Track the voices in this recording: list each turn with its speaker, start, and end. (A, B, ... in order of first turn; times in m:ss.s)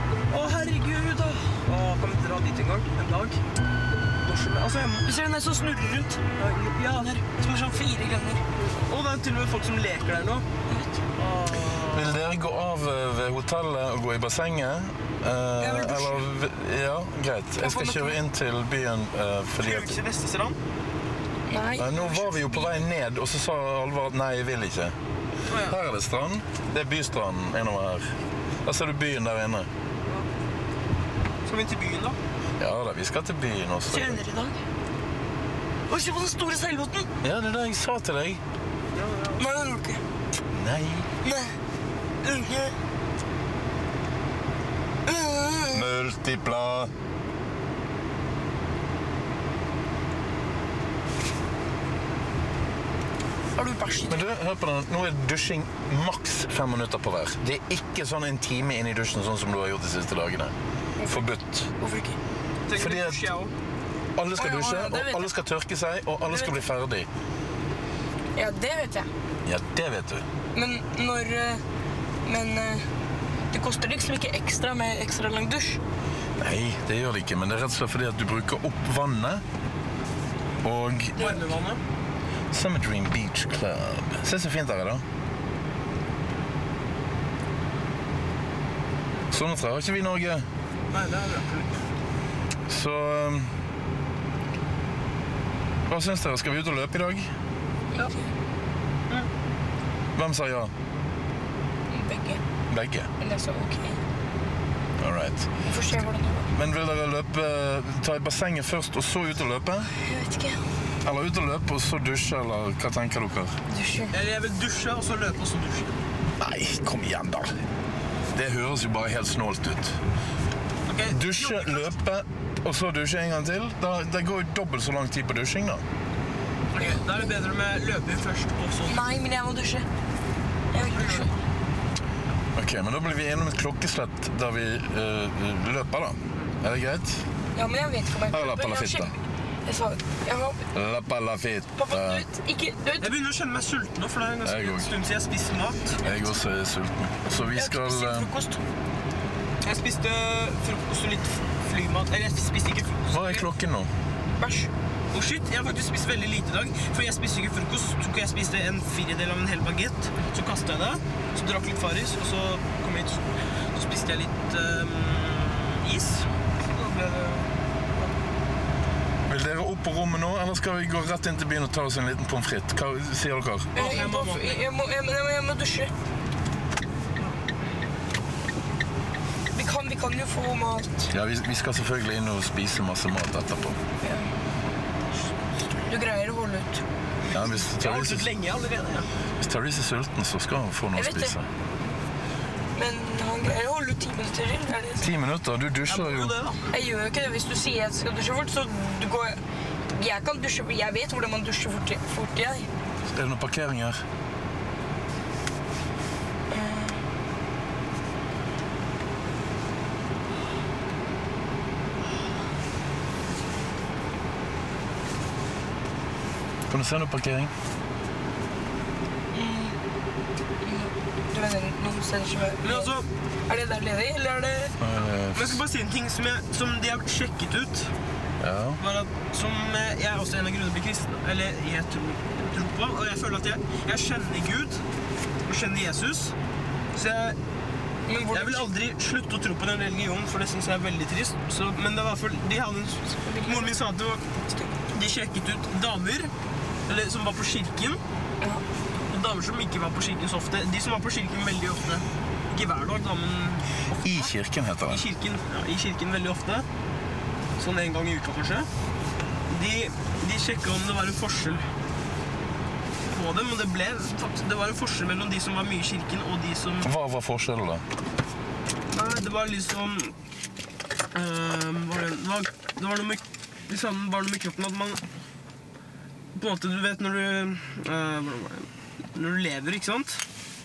0:00.3-0:03.4 A
0:04.2-0:05.1 A
0:05.0-0:06.2 B
0:06.4-0:07.3 A
0:07.4-0:08.4 B
0:08.6-0:10.5 A
0:10.7-0:11.0 B
0:11.2-0:12.1 A
0:11.9-0:19.9 C
0:15.6-0:16.3 B
0:17.6-0:18.2 B
0:19.6-0:20.6 A
0:21.5-0:22.9 B
0:21.8-0:25.0 C
0:25.5-0:25.8 A
0:25.7-0:28.1 C
0:28.6-0:29.7 C
0:31.5-0:32.2 A
0:32.6-0:34.2 C
0:33.9-0:34.6 B
0:35.9-0:37.1 B
0:37.2-0:38.4 C
0:38.9-0:39.5 A
0:39.4-0:40.0 B
0:40.5-0:41.1 C
0:41.2-0:41.5 B
0:42.2-0:42.7 B
0:45.1-0:45.9 B
0:45.7-0:46.9 C
0:53.6-0:54.3 B
0:54.1-1:00.6 C
1:01.0-1:01.3 B
1:01.1-1:01.7 C
1:01.8-1:02.2 B
1:02.7-1:03.5 A
1:02.8-1:03.2 C
1:04.2-1:07.1 C
1:04.4-1:05.3 B
1:06.3-1:06.5 B
1:08.4-1:09.1 B
1:09.5-1:10.2 C
1:10.5-1:11.6 B
1:12.2-1:12.9 B
1:13.5-1:15.8 B
1:16.4-1:19.4 C
1:20.6-1:21.4 C
1:21.2-1:21.8 A
1:22.5-1:25.0 C
1:29.3-1:30.5 C
1:30.9-1:31.8 A
1:32.7-1:33.5 C
1:35.9-1:37.3 C
1:37.9-1:38.3 B
1:40.2-1:40.7 C
1:41.9-1:42.4 B
1:42.7-1:43.1 C
1:43.2-1:44.0 B
1:45.0-1:45.5 C
1:45.6-1:46.5 B
1:46.5-1:49.9 C
1:49.9-1:50.6 B
1:51.0-1:53.6 C
1:53.7-1:54.2 B
1:54.1-1:55.9 A
1:56.4-1:57.6 C
1:58.3-2:00.0 C
2:00.9-2:02.0 A
2:01.1-2:05.8 C
2:06.7-2:09.0 A
2:08.9-2:09.9 B
2:10.7-2:11.3 B
2:10.8-2:11.3 A
2:12.6-2:17.2 C
2:17.6-2:20.6 B
2:18.3-2:19.2 C
2:20.7-2:22.3 C
2:21.8-2:23.1 B
2:23.0-2:26.0 A
2:24.4-2:24.9 C
2:26.0-2:28.3 C
2:26.0-2:26.4 B
2:27.5-2:28.6 B
2:29.6-2:33.5 A
2:33.1-2:33.9 C
2:34.4-2:34.7 B
2:35.1-2:48.1 A
2:49.3-2:53.7 C
2:53.8-2:54.7 A
2:53.8-2:55.9 B
2:59.5-3:01.1 B
3:01.1-3:03.8 C
3:04.0-3:04.3 B
3:05.9-3:06.8 B
3:07.3-3:08.3 C
3:07.3-3:09.1 A
3:09.4-3:11.5 C
3:11.0-3:11.4 B
3:12.8-3:15.1 B
3:15.0-3:16.4 C
3:15.9-3:16.7 A
3:16.7-3:22.7 B
3:23.1-3:24.0 C
3:26.5-3:27.0 B
3:36.7-3:37.5 C
3:39.3-3:39.8 B
3:40.6-3:42.9 B
3:42.6-3:43.1 A
3:43.5-3:44.7 B
3:44.8-3:45.6 C
3:45.4-3:47.9 A
3:48.4-3:48.8 C
3:48.8-3:54.8 A
3:55.5-3:56.3 A
3:56.9-3:57.4 A
3:58.1-3:58.7 B
3:58.3-4:04.4 A
4:03.1-4:03.8 B
4:04.9-4:06.3 A
4:06.9-4:08.0 A
4:09.1-4:14.3 A
4:14.0-4:15.0 C
4:14.9-4:16.7 A
4:17.6-4:18.7 A
4:19.5-4:21.7 A
4:23.1-4:26.9 A
4:26.8-4:27.8 C
4:28.9-4:30.2 A
4:31.1-4:35.0 A
4:36.4-4:40.2 A